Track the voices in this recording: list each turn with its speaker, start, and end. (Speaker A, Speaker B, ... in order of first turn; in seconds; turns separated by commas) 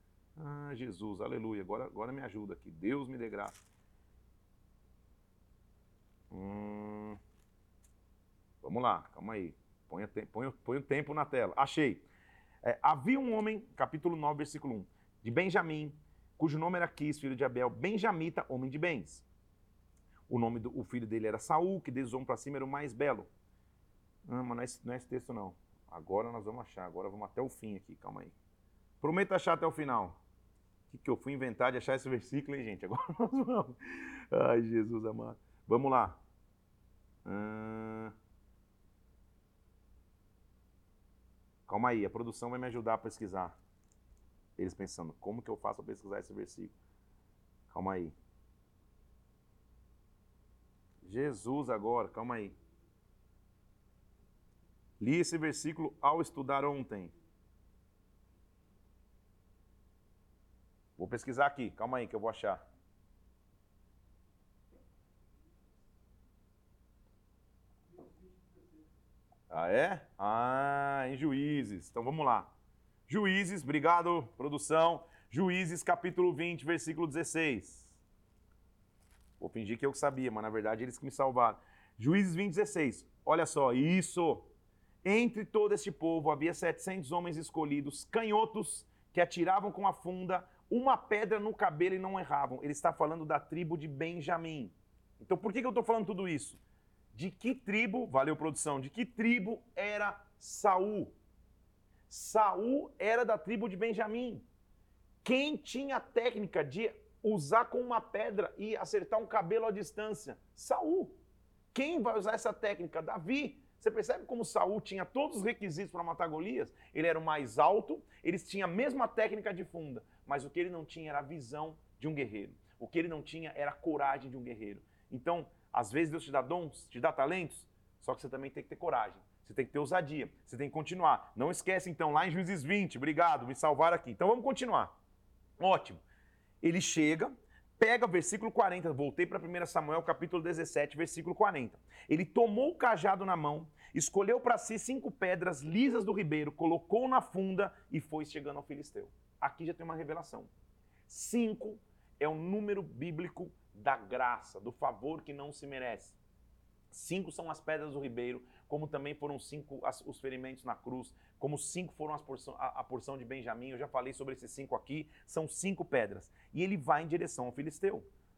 Speaker A: 0.4-3.5, Speaker A: 6.3-7.2, Speaker A: 8.6-12.1, Speaker A: 12.6-19.3, Speaker A: 20.3-23.3, Speaker A: 24.2-28.4, Speaker A: 29.0-30.2, Speaker A: 30.9-36.2, Speaker A: 37.2-38.1, Speaker A: 41.7-43.6, Speaker A: 44.6-46.8, Speaker A: 47.7-48.1, Speaker A: 51.0-52.6, Speaker A: 55.0-57.1, Speaker A: 61.0-62.6, Speaker A: 69.5-72.5, Speaker A: 73.1-78.0, Speaker A: 79.4-84.5, Speaker A: 85.0-96.6, Speaker A: 97.1-101.1, Speaker A: 102.1-104.5, Speaker A: 105.2-111.2, Speaker A: 111.7-134.9, Speaker A: 135.6-136.0, Speaker A: 136.6-150.5, Speaker A: 151.1-156.2, Speaker A: 156.9-168.1